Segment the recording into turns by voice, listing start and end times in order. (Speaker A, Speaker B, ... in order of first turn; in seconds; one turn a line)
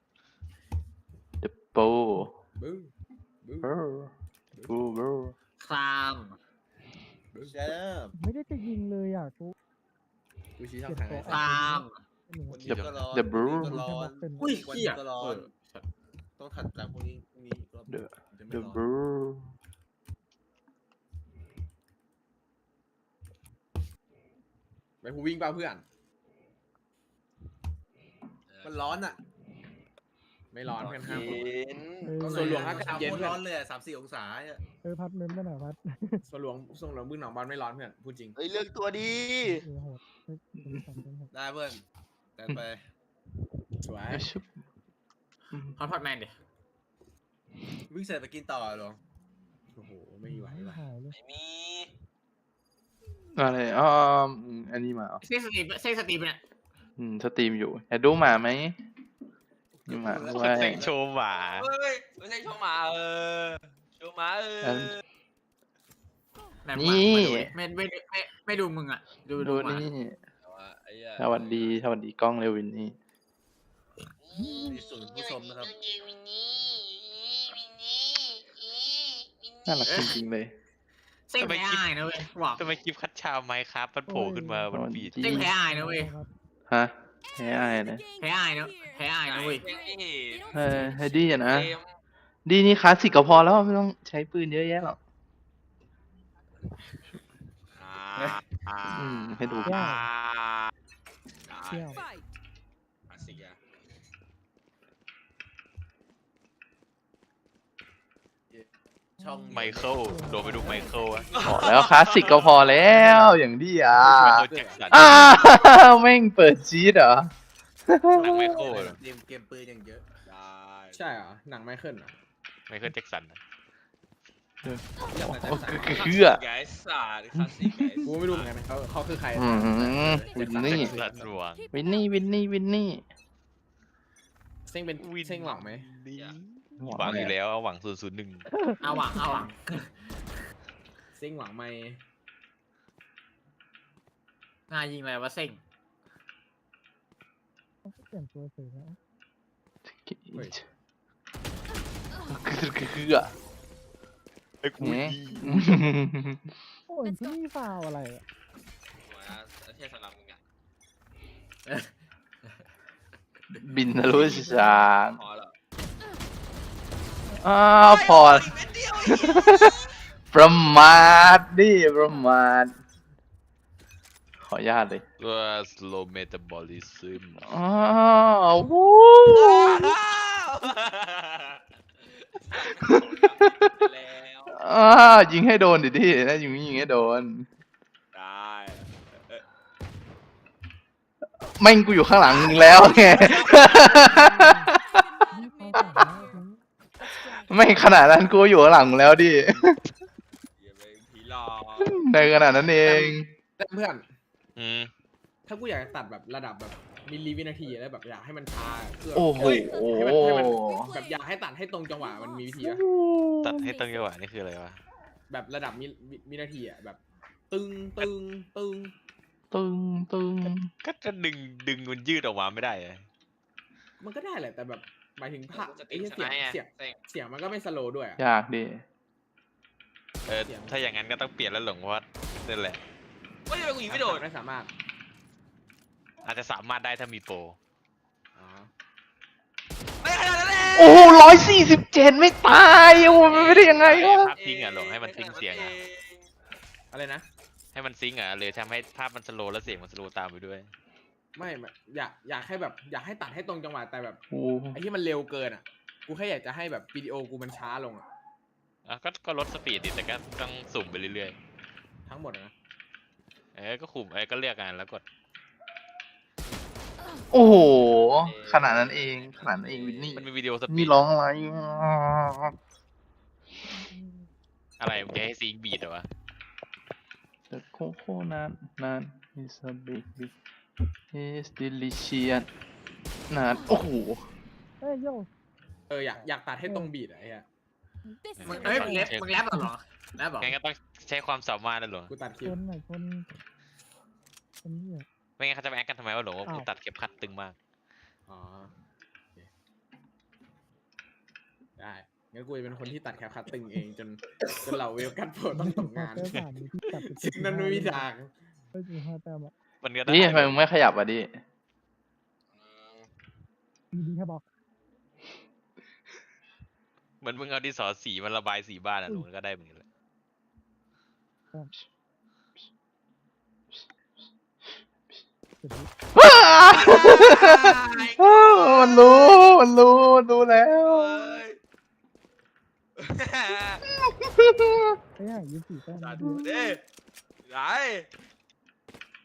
Speaker A: 1.4-2.3
Speaker B: 2.5-2.9
Speaker B: 3.4-3.7
Speaker A: 3.6-4.1
Speaker B: 4.5-5.0
Speaker A: 4.7-5.3
Speaker C: 5.6-6.4
Speaker B: 7.3-7.6
Speaker D: 7.4-8.1
Speaker E: 8.1-9.5
Speaker B: 10.6-11.7
Speaker E: 10.8-12.8
Speaker C: 11.2-12.0
Speaker D: 12.5-15.5
Speaker F: 12.6-13.0
Speaker A: 13.1-13.8
Speaker E: 13.5-14.5
Speaker C: 14.4-15.8
Speaker D: 16.4-18.8
Speaker A: 17.9-19.5
Speaker B: 25.0-25.8
Speaker G: 28.5-29.0
Speaker D: 28.6-29.2
Speaker B: 30.5-31.5
Speaker G: 30.6-32.1
Speaker D: 31.0-31.3
Speaker E: 32.0-32.7
Speaker D: 32.2-34.6
Speaker B: 32.2-33.4
Speaker E: 34.8-36.2
Speaker B: 36.2-38.4
Speaker G: 38.4-39.2
Speaker E: 39.4-41.3
Speaker D: 41.3-41.8
Speaker D: 42.4-42.8
Speaker B: 43.8-44.3
Speaker A: 44.1-44.5
Speaker C: 45.8-46.3
Speaker D: 47.9-49.0
Speaker B: 49.7-50.8
Speaker E: 50.2-51.1
Speaker G: 51.1-51.9
Speaker A: 53.4-55.2
Speaker C: 55.2-56.4
Speaker A: 57.0-58.8
Speaker D: 59.7-60.9
Speaker A: 59.9-60.8
Speaker F: 60.3-61.7
Speaker G: 60.4-60.9
Speaker G: 61.5-65.0
Speaker A: 64.6-64.9
Speaker C: 66.6-69.9
Speaker A: 66.7-67.5
Speaker A: 69.4-70.2
Speaker G: 70.4-71.8
Speaker A: 71.2-73.0
Speaker G: 74.2-76.8
Speaker D: 74.4-75.7
Speaker A: 79.7-80.5
Speaker C: 79.8-80.2
Speaker C: 81.3-82.7
Speaker F: 81.4-81.9
Speaker F: 82.6-85.5
Speaker E: 84.1-84.7
Speaker A: 84.7-85.5
Speaker C: 85.2-86.1
Speaker E: 85.5-86.3
Speaker A: 86.7-88.1
Speaker C: 88.2-89.7
Speaker G: 89.3-90.5
Speaker A: 90.5-91.7
Speaker G: 91.3-91.8
Speaker A: 92.5-95.0
Speaker G: 97.7-100.7
Speaker A: 98.9-99.8
Speaker E: 99.7-100.0
Speaker G: 101.5-102.1
Speaker E: 101.7-102.0
Speaker G: 103.1-103.6
Speaker E: 109.2-110.9
Speaker D: 109.2-110.1
Speaker F: 109.5-111.3
Speaker D: 110.7-111.8
Speaker G: 111.3-112.6
Speaker A: 111.4-117.3
Speaker B: 112.9-113.2
Speaker F: 112.9-113.3
Speaker B: 114.0-115.0
Speaker F: 114.0-115.6
Speaker A: 117.9-118.6
Speaker D: 118.1-120.0
Speaker F: 118.2-119.0
Speaker G: 120.3-121.0
Speaker B: 120.9-122.1
Speaker F: 122.7-123.4
Speaker A: 124.6-126.4
Speaker D: 125.2-126.0
Speaker G: 125.7-128.5
Speaker A: 127.3-128.1
Speaker B: 128.0-131.4
Speaker A: 129.3-131.0
Speaker F: 130.6-131.7
Speaker A: 131.7-133.0
Speaker B: 134.7-135.8
Speaker F: 135.0-138.5
Speaker A: 136.8-137.3
Speaker E: 138.5-139.2
Speaker C: 138.8-140.2
Speaker B: 141.1-142.0
Speaker C: 144.7-145.6
Speaker E: 147.8-149.0
Speaker A: 149.8-150.6
Speaker A: 152.3-153.3
Speaker F: 154.6-155.8
Speaker A: 154.8-156.4
Speaker E: 156.9-158.2
Speaker G: 159.0-160.4
Speaker A: 163.5-165.2
Speaker G: 164.0-165.5
Speaker A: 167.4-169.7
Speaker G: 167.8-169.9
Speaker A: 170.3-172.8
Speaker A: 174.4-175.0
Speaker F: 175.2-177.5
Speaker A: 177.4-179.9
Speaker G: 179.2-184.6
Speaker A: 182.8-183.5
Speaker A: 184.5-187.5
Speaker G: 188.1-189.4
Speaker A: 191.6-195.0
Speaker G: 192.8-193.7
Speaker E: 194.0-194.7
Speaker E: 195.3-196.6
Speaker A: 197.3-199.8
Speaker G: 200.6-202.0
Speaker A: 201.8-203.3
Speaker B: 202.8-204.1
Speaker F: 204.6-204.9
Speaker B: 205.4-212.8
Speaker A: 209.1-210.9
Speaker G: 209.4-209.7
Speaker A: 212.6-213.7
Speaker F: 213.4-214.8
Speaker B: 215.3-217.0
Speaker B: 217.5-218.9
Speaker A: 219.5-220.7
Speaker F: 220.5-223.0
Speaker B: 224.0-228.2
Speaker G: 225.5-227.0
Speaker A: 228.2-228.8
Speaker F: 230.2-232.8
Speaker B: 230.5-230.9
Speaker G: 233.5-234.2
Speaker B: 233.9-234.7
Speaker F: 236.2-237.6
Speaker B: 238.3-238.7
Speaker G: 240.0-241.4
Speaker A: 240.7-244.3
Speaker G: 242.8-246.3
Speaker F: 243.7-245.8
Speaker B: 246.9-247.2
Speaker F: 247.7-250.7
Speaker B: 251.3-254.2
Speaker A: 254.3-254.8
Speaker B: 254.7-258.1
Speaker F: 258.9-261.4
Speaker B: 262.1-262.5
Speaker F: 263.5-265.0
Speaker A: 267.3-272.5
Speaker G: 267.9-270.3
Speaker F: 270.1-271.0
Speaker F: 274.8-276.1
Speaker A: 277.5-280.3
Speaker A: 281.1-282.5
Speaker A: 283.3-284.2
Speaker E: 284.8-285.3
Speaker B: 285.9-287.4
Speaker E: 286.6-286.9
Speaker F: 288.4-289.3
Speaker B: 288.5-288.9
Speaker C: 288.5-290.6
Speaker F: 290.4-292.1
Speaker B: 292.1-292.6
Speaker E: 292.4-293.2
Speaker E: 294.6-295.1
Speaker F: 295.4-297.6
Speaker B: 298.3-298.7
Speaker B: 301.8-308.3
Speaker E: 305.6-308.1
Speaker E: 308.7-309.5
Speaker F: 309.8-310.6
Speaker A: 310.0-311.4
Speaker G: 312.5-313.1
Speaker E: 313.9-314.4
Speaker F: 317.2-319.8
Speaker E: 325.6-325.9
Speaker A: 326.1-331.2
Speaker G: 326.7-329.4
Speaker G: 330.8-331.6
Speaker G: 333.0-333.8
Speaker A: 333.9-334.9
Speaker E: 335.2-336.7
Speaker G: 336.0-336.8
Speaker G: 337.4-338.1